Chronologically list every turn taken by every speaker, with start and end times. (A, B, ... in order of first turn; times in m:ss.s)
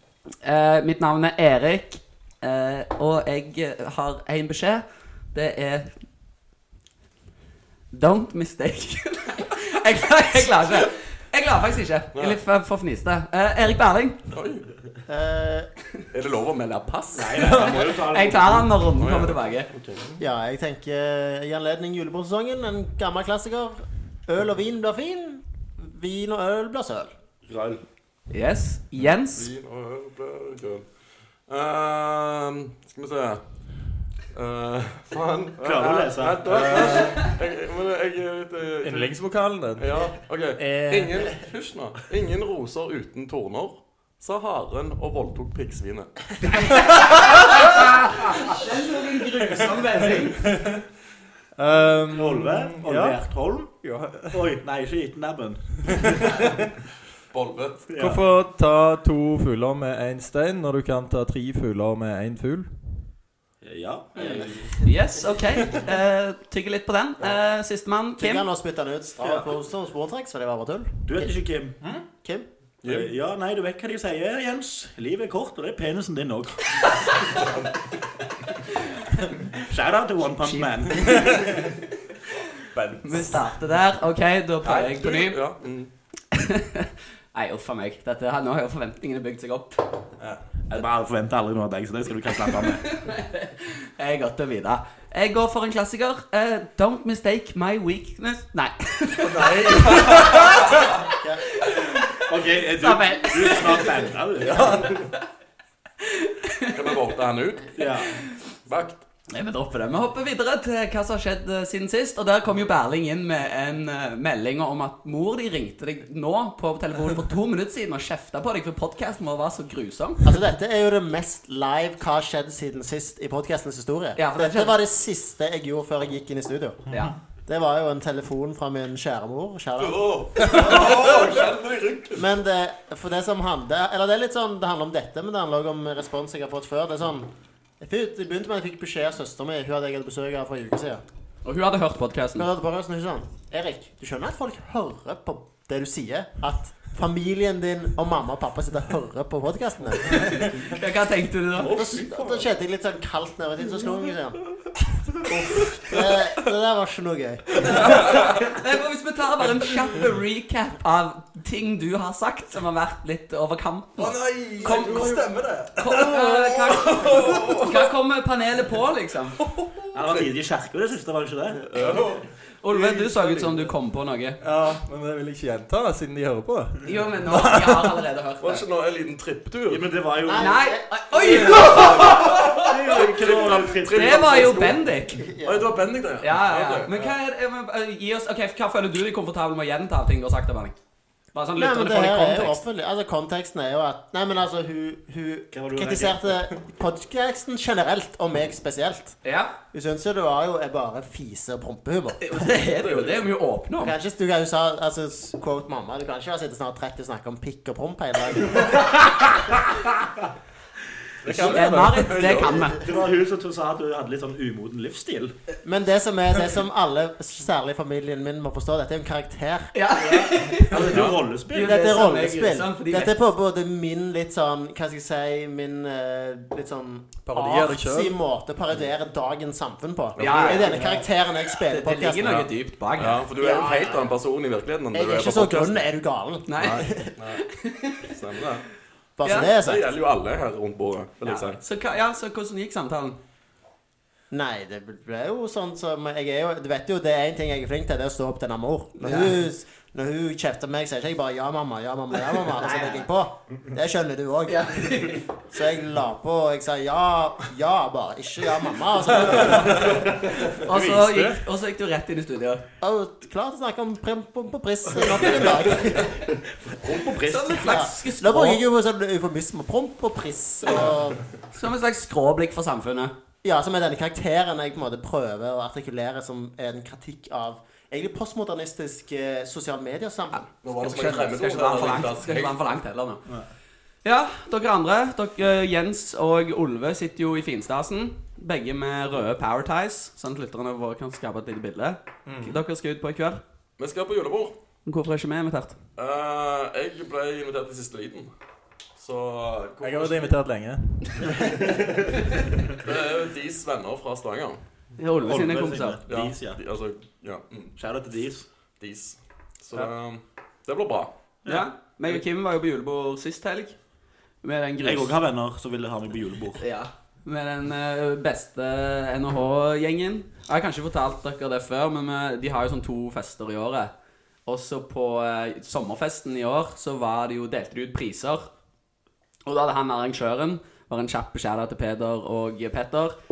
0:00.4-0:05.9 A
0:07.9-0:14.2 A
0:14.3-0:14.7 B
0:15.1-0:15.7 C
0:16.1-0:18.0 B
0:17.1-0:18.7 D
0:17.4-0:17.8 E
0:18.1-0:19.7 A
0:19.0-0:20.0 B
0:20.2-0:27.1 C
0:27.4-0:27.8 D
0:28.3-0:29.5 A
0:29.3-0:30.8 B
0:31.5-0:33.4 B
0:34.3-0:39.1 B
0:35.6-0:36.5 D
0:36.4-0:37.3 E
0:38.8-0:39.9 E
0:39.8-0:46.2 B
0:40.6-0:41.4 E
0:46.5-0:50.5 A
0:49.5-0:50.8 E
0:51.6-0:54.5 E
0:52.1-0:53.7 D
0:54.3-0:56.5 D
0:56.0-0:56.6 E
0:57.3-0:57.8 B
0:57.9-0:58.2 D
0:58.0-1:03.0 E
1:03.6-1:04.8 D
1:04.2-1:04.4 C
1:04.8-1:08.4 A
1:08.2-1:11.4 C
1:09.2-1:09.5 D
1:11.1-1:11.9 D
1:12.2-1:12.5 C
1:12.8-1:13.1 B
1:12.8-1:17.2 D
1:19.6-1:21.5 D
1:20.4-1:21.2 A
1:22.7-1:23.4 E
1:23.0-1:25.4 A
1:24.6-1:25.9 B
1:26.3-1:30.0 A
1:30.2-1:30.4 E
1:30.7-1:33.0 D
1:32.5-1:42.2 A
1:39.2-1:40.8 E
1:41.2-1:41.4 C
1:42.3-1:45.0 D
1:42.8-1:44.1 A
1:44.4-1:45.0 E
1:46.0-1:46.8 A
1:46.7-1:47.9 B
1:47.8-1:48.1 D
1:48.6-1:49.0 B
1:49.3-2:00.3 A
2:00.2-2:06.8 C
2:04.2-2:04.8 A
2:07.4-2:11.1 C
2:09.8-2:12.2 B
2:12.1-2:21.0 C
2:21.4-2:22.5 A
2:22.4-2:30.6 C
2:30.1-2:31.7 A
2:31.6-2:32.5 B
2:31.6-2:34.4 C
2:35.2-2:37.6 C
2:35.6-2:36.0 B
2:37.6-2:49.4 A
2:44.0-2:47.8 E
2:44.6-2:45.1 B
2:46.9-2:47.6 B
2:49.4-2:50.2 E
2:49.9-2:52.0 D
2:51.7-2:52.2 B
2:51.8-2:53.7 E
2:52.6-2:54.4 A
2:54.4-2:58.0 E
2:56.8-2:58.6 A
2:58.4-2:59.9 B
2:59.7-3:00.6 D
3:00.2-3:01.6 C
3:00.4-3:02.6 A
3:01.4-3:04.7 B
3:02.4-3:04.8 D
3:03.9-3:05.2 A
3:05.1-3:05.8 C
3:05.4-3:07.1 B
3:06.2-3:10.8 A
3:11.3-3:12.6 A
3:11.5-3:19.2 C
3:15.5-3:16.5 D
3:19.2-3:19.5 A
3:19.7-3:22.4 C
3:22.2-3:23.9 A
3:22.5-3:23.2 B
3:23.8-3:29.3 C
3:31.2-3:32.4 E
3:31.4-3:32.8 A
3:32.1-3:32.7 B
3:32.8-3:35.3 D
3:35.6-3:39.7 C
3:39.7-3:41.0 A
3:40.0-3:41.9 D
3:40.8-3:41.2 B
3:41.5-3:43.2 A
3:41.5-3:52.4 C
3:47.2-3:48.2 E
3:50.2-3:53.3 A
3:50.4-3:51.0 E
3:53.0-3:55.8 B
3:53.4-3:54.1 C
3:54.9-3:57.1 C
3:56.5-3:56.9 A
3:57.2-3:57.4 B
3:57.5-3:58.1 A
3:58.0-3:58.6 B
3:59.2-3:59.9 C
3:59.2-3:59.5 A
3:59.6-4:01.6 B
4:01.2-4:03.2 A
4:04.3-4:20.1 C
4:09.0-4:09.3 A
4:12.5-4:13.0 A
4:14.5-4:15.3 A
4:19.5-4:19.9 E
4:20.5-4:22.6 A
4:20.6-4:21.4 E
4:22.8-4:26.1 C
4:26.8-4:27.8 D
4:27.2-4:28.6 A
4:27.2-4:31.2 C
4:31.5-4:33.1 A
4:33.4-4:40.5 C
4:40.3-4:43.2 A
4:40.6-4:42.7 B
4:44.0-4:53.4 A
4:52.2-4:52.6 E
4:53.8-4:54.5 B
4:54.8-4:55.8 A
4:56.0-4:58.3 B
4:59.0-5:00.3 B
4:59.8-5:01.9 E
5:02.8-5:04.6 B
5:05.0-5:06.0 A
5:05.2-5:06.6 D
5:06.1-5:07.7 B
5:07.8-5:08.4 D
5:08.8-5:11.1 B
5:11.4-5:13.7 A
5:14.4-5:15.1 A
5:14.8-5:16.6 D
5:16.6-5:23.9 A
5:24.4-5:28.5 A
5:29.4-5:33.2 A